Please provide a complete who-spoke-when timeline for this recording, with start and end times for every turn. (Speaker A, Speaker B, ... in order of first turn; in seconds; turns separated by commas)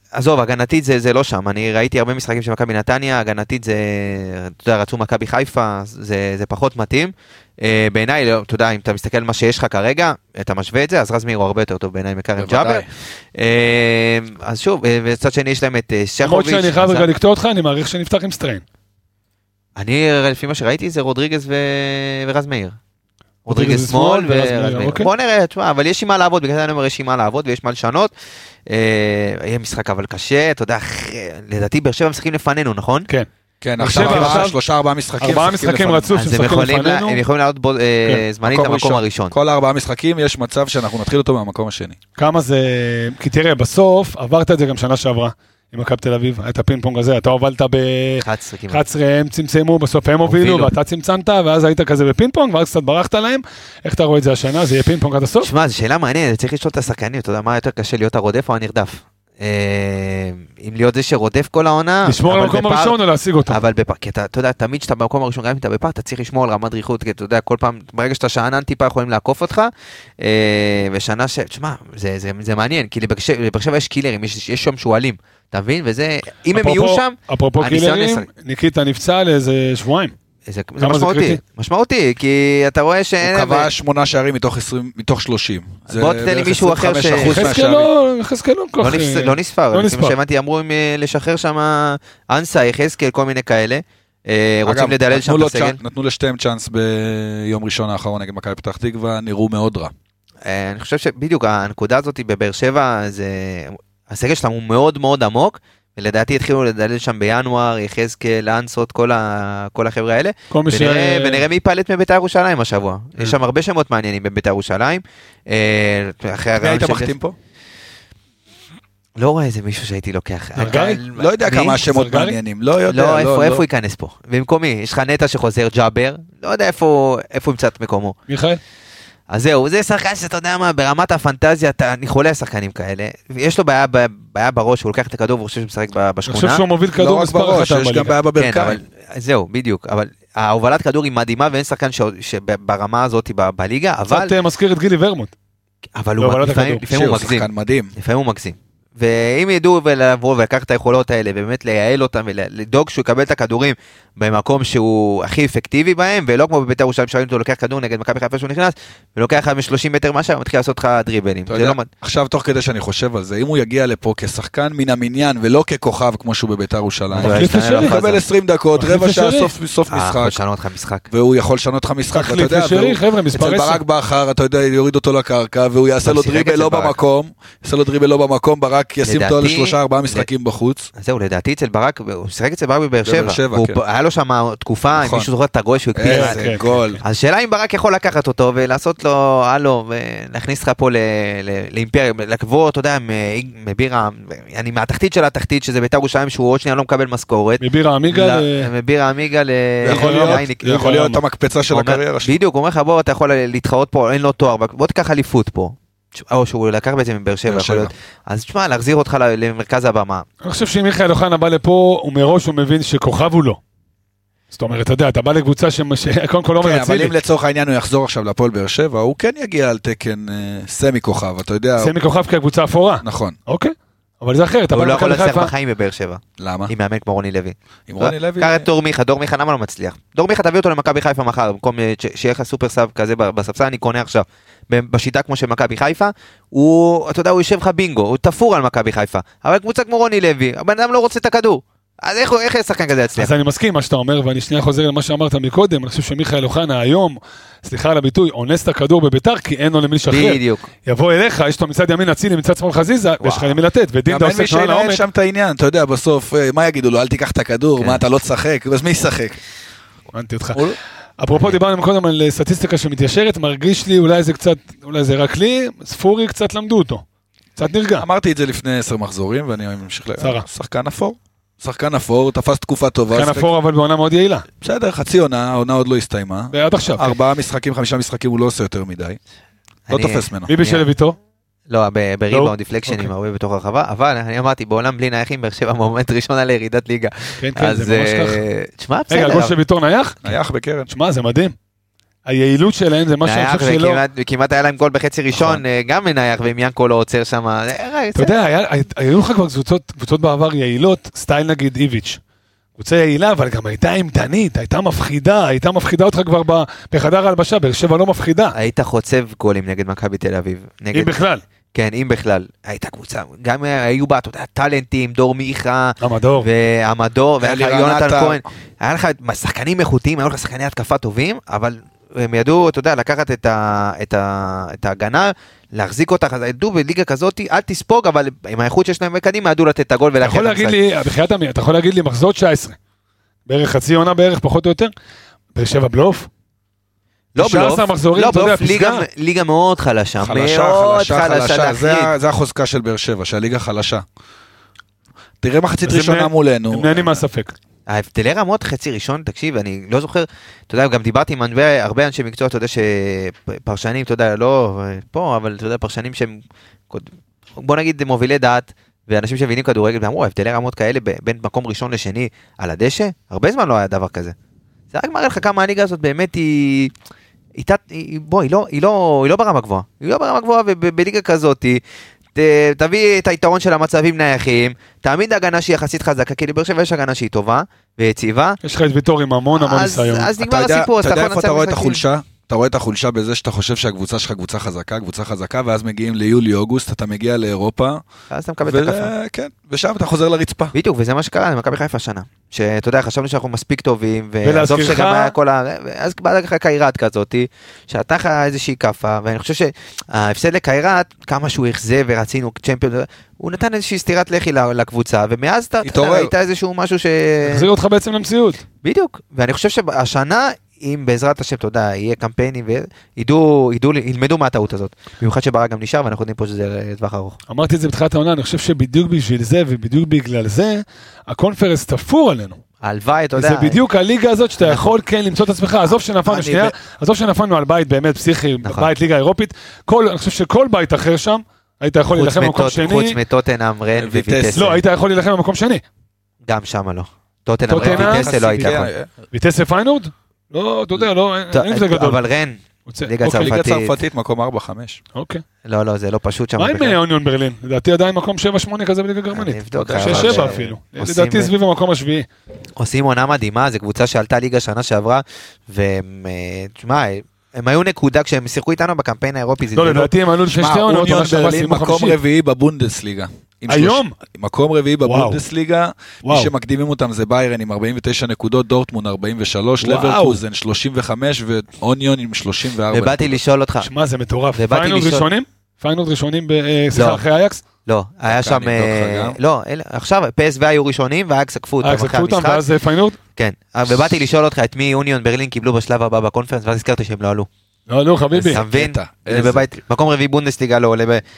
Speaker A: 0.1-17.1, Speaker B: 12.4-12.9, Speaker C: 16.2-18.6, Speaker A: 19.8-22.8, Speaker A: 23.4-28.1, Speaker C: 23.5-25.1, Speaker A: 28.7-33.1, Speaker B: 33.6-36.1, Speaker C: 33.8-34.6, Speaker A: 33.9-34.5, Speaker C: 35.2-37.2, Speaker A: 36.1-39.3, Speaker B: 38.4-42.0, Speaker C: 42.2-55.5, Speaker A: 48.2-48.8, Speaker A: 50.2-50.7, Speaker A: 55.4-78.3, Speaker C: 62.0-63.6, Speaker C: 76.5-80.1, Speaker A: 80.5-83.7, Speaker C: 80.8-81.4, Speaker B: 83.2-87.9, Speaker A: 85.9-87.5, Speaker C: 87.2-90.2, Speaker A: 88.8-95.8, Speaker B: 94.6-99.9, Speaker A: 100.4-117.1, Speaker C: 110.5-111.5, Speaker B: 116.6-117.3, Speaker A: 119.2-121.8, Speaker C: 120.6-121.0, Speaker B: 121.1-123.6, Speaker C: 121.8-122.4, Speaker A: 122.8-128.2, Speaker C: 128.3-128.6, Speaker A: 129.3-136.6, Speaker C: 136.2-138.2, Speaker B: 136.9-138.8, Speaker A: 138.4-144.3, Speaker C: 144.1-145.3, Speaker A: 145.9-161.9, Speaker C: 146.2-146.8, Speaker B: 146.9-147.9, Speaker B: 161.5-170.4, Speaker A: 167.1-168.2, Speaker C: 167.2-167.9, Speaker C: 168.8-169.5, Speaker A: 169.9-171.1, Speaker B: 171.1-180.9, Speaker C: 172.1-173.8, Speaker A: 176.0-177.0, Speaker A: 179.0-180.3, Speaker A: 180.9-200.9, Speaker B: 183.0-183.8, Speaker B: 185.0-185.3, Speaker B: 185.9-187.0, Speaker C: 186.0-186.6, Speaker C: 197.6-198.7, Speaker B: 199.8-202.3, Speaker C: 199.9-201.2, Speaker A: 201.7-210.2, Speaker B: 207.5-207.9, Speaker C: 210.4-213.6, Speaker C: 214.5-217.1, Speaker B: 216.6-221.9, Speaker C: 221.8-225.5, Speaker B: 223.0-223.4, Speaker A: 224.7-243.3, Speaker B: 226.4-226.7, Speaker B: 227.9-228.7, Speaker C: 243.2-255.0, Speaker A: 250.1-250.7, Speaker A: 253.2-253.6, Speaker B: 254.1-259.4, Speaker A: 257.8-258.0, Speaker C: 260.1-260.6, Speaker C: 261.2-267.0, Speaker C: 267.6-268.1, Speaker B: 268.0-273.5, Speaker C: 270.2-270.4, Speaker C: 273.1-274.4, Speaker B: 274.6-279.2, Speaker C: 276.5-277.2, Speaker A: 279.9-280.9, Speaker B: 279.9-280.5, Speaker C: 280.5-281.2, Speaker A: 281.7-289.6, Speaker C: 282.3-283.1, Speaker C: 287.4-288.4, Speaker C: 289.1-290.2, Speaker B: 290.2-290.9, Speaker C: 290.9-291.5, Speaker C: 292.3-294.0, Speaker A: 293.2-298.3, Speaker C: 298.1-302.2, Speaker C: 302.8-308.6, Speaker A: 308.5-311.1, Speaker C: 310.9-311.4, Speaker A: 311.7-330.8, Speaker C: 316.0-316.5, Speaker B: 317.4-318.4, Speaker C: 330.2-332.8, Speaker C: 333.5-334.9, Speaker C: 335.5-336.3, Speaker A: 337.3-342.1, Speaker C: 337.4-339.1, Speaker B: 340.2-344.0, Speaker B: 345.4-347.2, Speaker C: 345.8-347.5, Speaker A: 347.9-364.3, Speaker A: 364.9-366.9, Speaker A: 367.6-371.8, Speaker A: 372.3-378.6, Speaker C: 378.6-380.3, Speaker A: 379.5-382.0, Speaker B: 380.4-388.0, Speaker A: 388.3-389.1, Speaker B: 388.6-390.7, Speaker A: 390.7-407.7, Speaker C: 394.4-395.3, Speaker B: 405.8-406.3, Speaker C: 407.4-408.6, Speaker A: 408.8-417.4, Speaker C: 417.5-422.6, Speaker A: 422.8-423.8, Speaker C: 423.4-433.2, Speaker A: 424.6-424.9, Speaker A: 426.3-426.7, Speaker A: 428.6-428.9, Speaker A: 432.1-434.8, Speaker B: 434.0-434.7, Speaker C: 434.5-435.8, Speaker A: 436.4-438.9, Speaker C: 437.7-438.7, Speaker B: 437.8-439.1, Speaker C: 439.3-442.2, Speaker A: 441.5-443.9, Speaker C: 442.9-443.5, Speaker B: 443.2-445.0, Speaker C: 445.1-445.4, Speaker A: 445.6-447.0, Speaker C: 446.6-452.2, Speaker A: 449.3-451.5, Speaker B: 449.8-450.6, Speaker A: 452.8-460.1, Speaker C: 459.7-462.2, Speaker B: 460.5-473.4, Speaker C: 463.7-464.1, Speaker C: 465.0-465.4, Speaker C: 466.2-466.5, Speaker C: 469.8-470.4, Speaker A: 472.9-473.9, Speaker C: 473.8-477.6, Speaker A: 474.5-475.3, Speaker A: 476.9-477.2, Speaker A: 477.9-482.6, Speaker B: 478.3-479.4, Speaker C: 481.8-483.2, Speaker A: 483.4-487.5, Speaker C: 487.9-488.6, Speaker B: 488.3-489.7, Speaker A: 488.5-491.2